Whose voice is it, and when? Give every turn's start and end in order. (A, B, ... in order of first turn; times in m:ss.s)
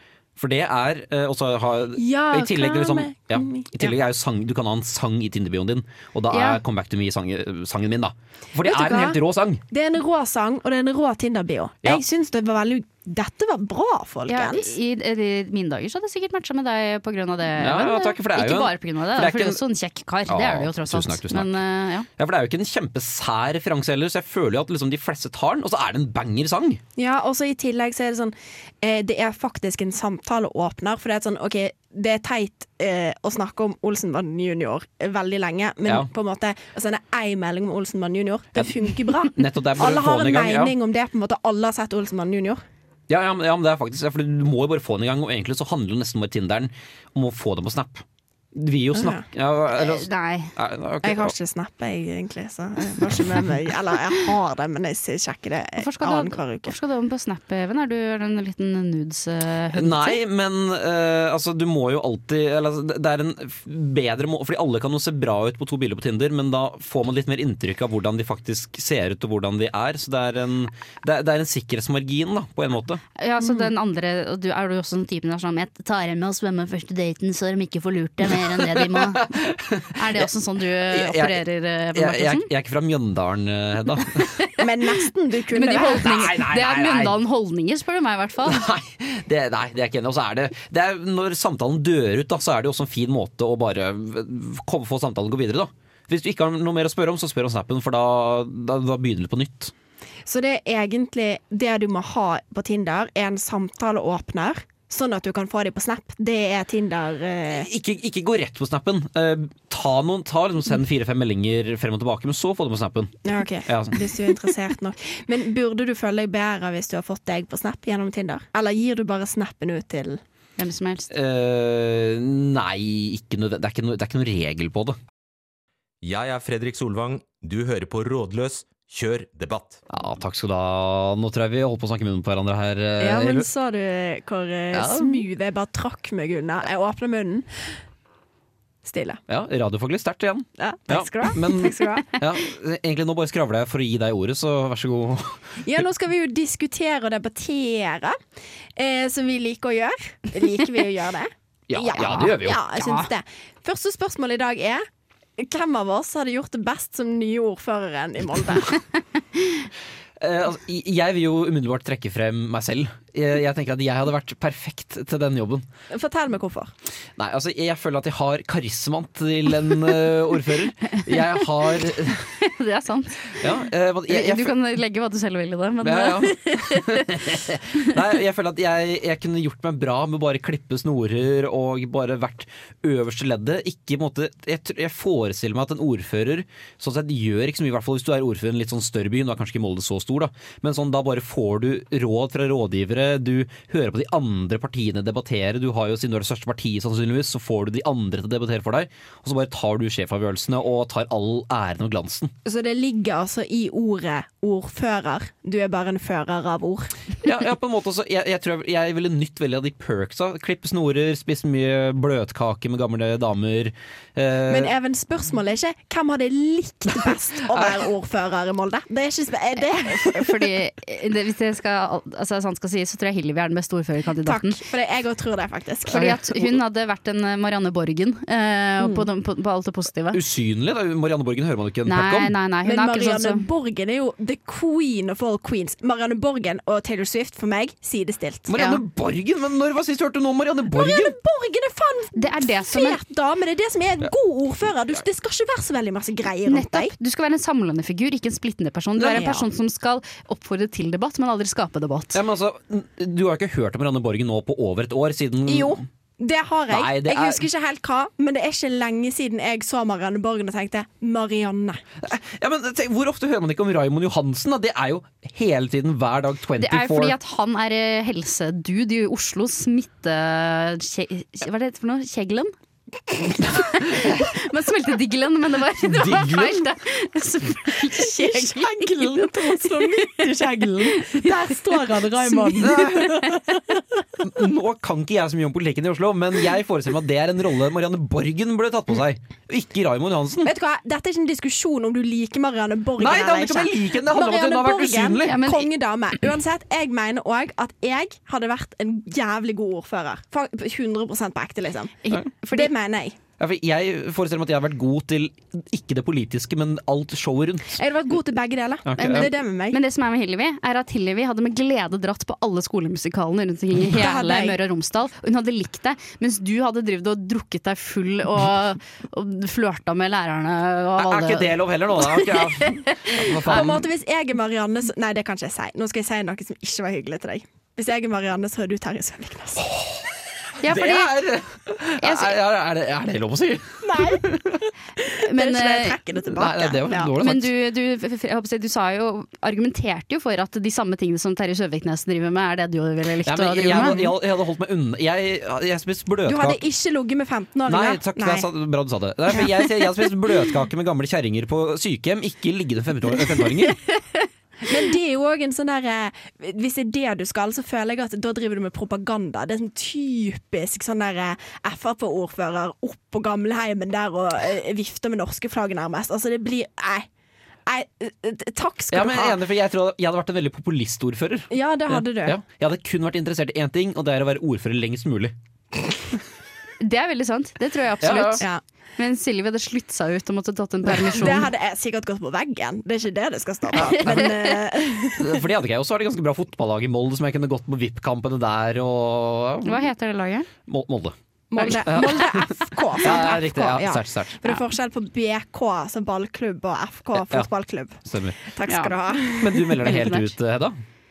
0:00.4-0:09.6 A
0:02.0-0:04.0 B
0:06.3-0:06.6 C
0:08.6-0:09.2 B
0:09.7-0:14.8 B
0:14.3-0:22.1 C
0:17.6-0:19.6 A
0:20.3-0:21.6 A
0:22.2-0:26.8 A
0:27.0-0:42.6 B
0:35.8-0:36.1 A
0:38.6-0:40.8 A
0:43.1-0:51.3 A
0:48.9-0:49.2 B
0:49.7-0:50.5 C
0:51.0-0:56.7 B
0:55.8-1:00.2 C
0:59.7-1:13.0 A
1:13.2-1:19.3 C
1:13.4-1:13.7 B
1:18.4-1:20.3 A
1:19.9-1:22.5 C
1:20.8-1:21.4 A
1:21.9-1:24.3 A
1:24.6-1:26.2 B
1:25.5-1:28.6 C
1:25.7-1:27.2 A
1:28.4-1:39.7 A
1:40.2-1:47.7 B
1:47.5-1:54.2 A
1:53.2-2:00.2 B
2:00.6-2:01.1 C
2:01.1-2:05.0 A
2:06.0-2:09.8 D
2:09.9-2:13.5 A
2:13.0-2:17.5 B
2:14.7-2:15.2 A
2:18.8-2:19.2 B
2:19.3-2:25.8 A
2:20.6-2:22.2 B
2:25.6-2:28.2 B
2:28.8-2:34.8 B
2:31.7-2:33.0 A
2:35.4-2:38.8 B
2:40.2-2:45.6 A
2:45.9-2:46.7 B
2:47.2-2:52.3 A
2:51.0-2:51.4 C
2:52.4-2:53.4 C
2:53.3-2:54.6 A
2:54.1-2:57.2 C
2:55.8-3:22.3 A
3:22.4-3:26.9 B
3:27.2-3:34.7 A
3:34.5-3:40.5 B
3:37.5-3:37.8 A
3:39.8-3:44.6 C
3:44.2-3:46.2 B
3:45.9-3:50.2 C
3:45.9-3:46.3 A
3:50.1-3:52.3 A
3:51.8-3:53.4 C
3:52.6-3:58.5 B
3:58.5-4:01.2 A
3:58.6-3:58.8 C
4:00.7-4:06.9 B
4:02.1-4:03.0 C
4:06.4-4:12.2 C
4:09.0-4:09.3 A
4:09.1-4:09.4 B
4:12.1-4:15.8 A
4:15.5-4:21.8 B
4:16.7-4:17.5 A
4:22.0-4:27.2 A
4:26.6-4:32.5 C
4:33.4-4:40.2 C
4:33.9-4:34.2 A
4:35.8-4:36.6 A
4:38.0-4:43.8 B
4:40.8-4:43.2 C
4:42.6-4:43.2 A
4:44.2-4:50.5 A
4:50.4-5:02.0 B
4:53.0-4:55.5 A
4:55.2-4:55.7 C
5:02.0-5:02.7 C
5:02.5-5:03.2 B
5:03.4-5:07.8 A
5:07.7-5:09.8 B
5:08.8-5:09.3 A
5:09.0-5:23.7 C
5:13.9-5:14.6 B
5:21.0-5:23.8 A
5:23.4-5:29.6 B
5:29.6-5:30.1 A
5:30.6-5:31.2 C
5:30.6-5:34.6 A
5:32.0-5:32.4 C
5:33.8-5:34.2 B
5:35.0-5:37.1 B
5:35.2-5:36.0 C
5:36.3-5:37.5 A
5:37.1-5:44.1 C
5:43.2-5:46.6 A
5:46.2-5:48.5 B
5:47.6-5:53.8 A
5:54.6-6:07.1 B
6:07.6-6:09.4 B
6:08.9-6:15.3 A
6:11.5-6:12.4 B
6:16.8-6:18.5 C
6:18.0-6:18.4 A
6:19.0-6:21.5 C
6:20.8-6:25.4 B
6:23.7-6:24.4 A
6:25.2-6:29.8 A
6:29.6-6:30.5 C
6:30.7-6:34.4 A
6:31.5-6:39.9 B
6:37.1-6:37.5 A
6:38.0-6:38.4 A
6:38.7-6:38.9 C
6:39.4-6:40.8 A
6:39.8-6:40.3 C